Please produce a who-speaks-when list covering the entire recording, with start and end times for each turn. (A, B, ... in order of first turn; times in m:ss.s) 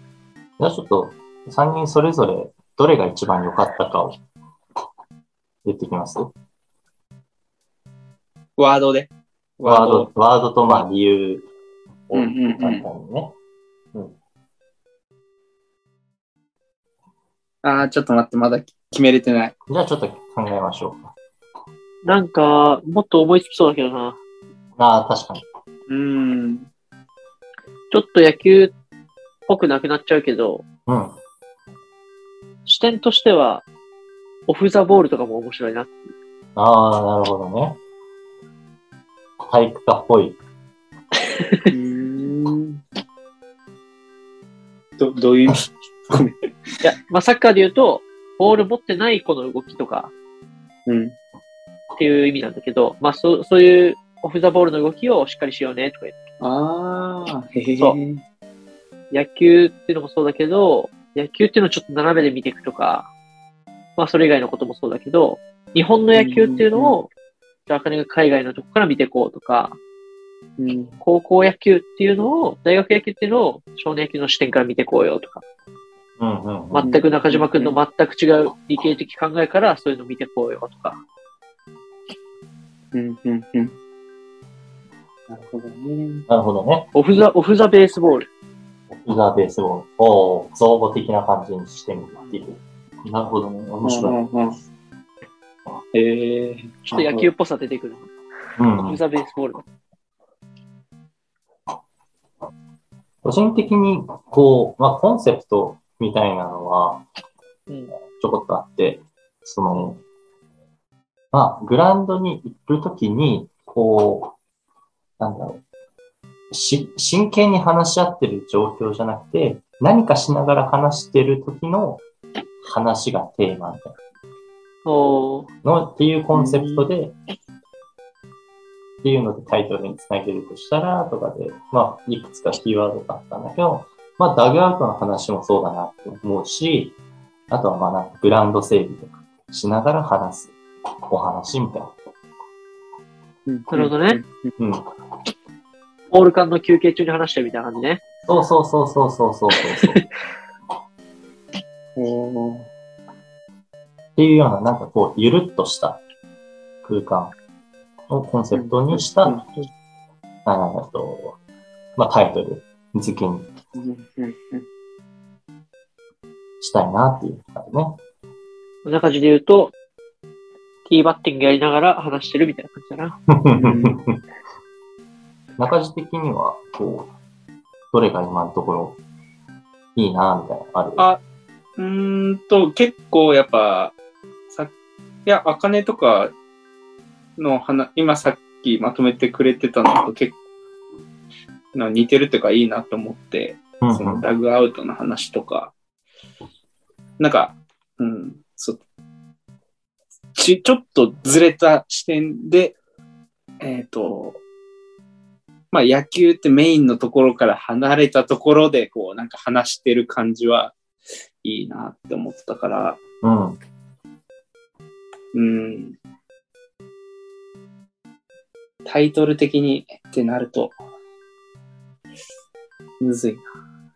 0:00.6-0:04.2 A
0:05.6-0:06.3 A
0:08.6-0:10.1 B
0:09.6-0:11.5 A
0:12.1-0:13.3 A
0:12.1-0:12.8 B
0:17.6-0:19.5 B
0:19.7-0:21.0 A
0:22.0-0:24.2 C
0:24.8-0:25.4 A
0:25.9-0:26.7 B
0:27.9-0:28.7 C
0:29.5-0:30.6 C
0:30.9-0:31.2 A
0:32.6-0:33.6 C
0:34.5-0:36.0 C
0:36.6-0:37.8 A
0:39.5-0:40.4 A
0:41.4-0:41.7 C
0:41.7-0:42.8 B
0:45.0-0:46.4 B
0:46.8-0:50.1 C
0:50.8-0:51.2 B
0:52.0-0:56.2 C
0:56.4-0:58.2 B
0:59.1-1:03.1 C
1:04.0-1:07.1 C
1:06.1-1:07.0 B
1:07.7-1:09.8 C
1:10.6-1:11.0 B
1:11.0-1:15.4 C
1:16.2-1:16.9 A
1:16.7-1:21.0 C
1:16.8-1:17.8 B
1:22.9-1:23.7 B
1:25.3-1:26.3 B
1:26.3-1:26.9 A
1:26.9-1:28.3 C
1:28.9-1:34.2 A
1:33.8-1:34.6 B
1:35.9-1:37.3 B
1:36.9-1:38.1 C
1:38.6-1:39.0 A
1:38.8-1:39.6 C
1:43.2-1:47.0 A
1:47.7-1:47.9 C
1:48.1-1:50.0 A
1:51.3-1:54.3 A
1:55.2-1:55.6 A
1:56.5-2:02.0 A
2:02.6-2:04.0 A
2:04.8-2:05.5 C
2:05.6-2:07.1 A
2:06.3-2:06.9 B
2:09.0-2:17.0 A
2:17.5-2:20.6 A
2:21.1-2:21.9 A
2:23.4-2:24.5 B
2:23.7-2:24.2 C
2:24.6-2:24.8 A
2:26.1-2:28.0 C
2:28.3-2:30.0 A
2:32.0-2:32.7 B
2:34.2-2:36.0 A
2:36.8-2:37.3 A
2:38.1-2:39.4 A
2:38.5-2:39.5 B
2:40.4-2:41.4 A
2:42.0-2:43.5 A
2:43.7-2:44.6 B
2:46.6-2:48.0 A
2:48.8-2:49.7 C
2:50.8-2:53.2 C
2:53.3-2:54.2 A
2:53.5-2:54.0 B
2:55.6-2:57.1 A
2:57.9-2:59.0 A
3:00.0-3:01.0 A
3:01.8-3:04.0 B
3:05.2-3:06.3 B
3:07.4-3:10.4 B
3:11.7-3:15.7 B
3:13.8-3:14.3 A
3:17.2-3:18.8 B
3:20.3-3:22.8 B
3:23.6-3:24.4 B
3:25.7-3:30.8 B
3:31.4-3:33.0 B
3:33.2-3:33.6 A
3:35.3-3:36.0 B
3:38.8-3:40.7 B
3:43.0-3:43.4 B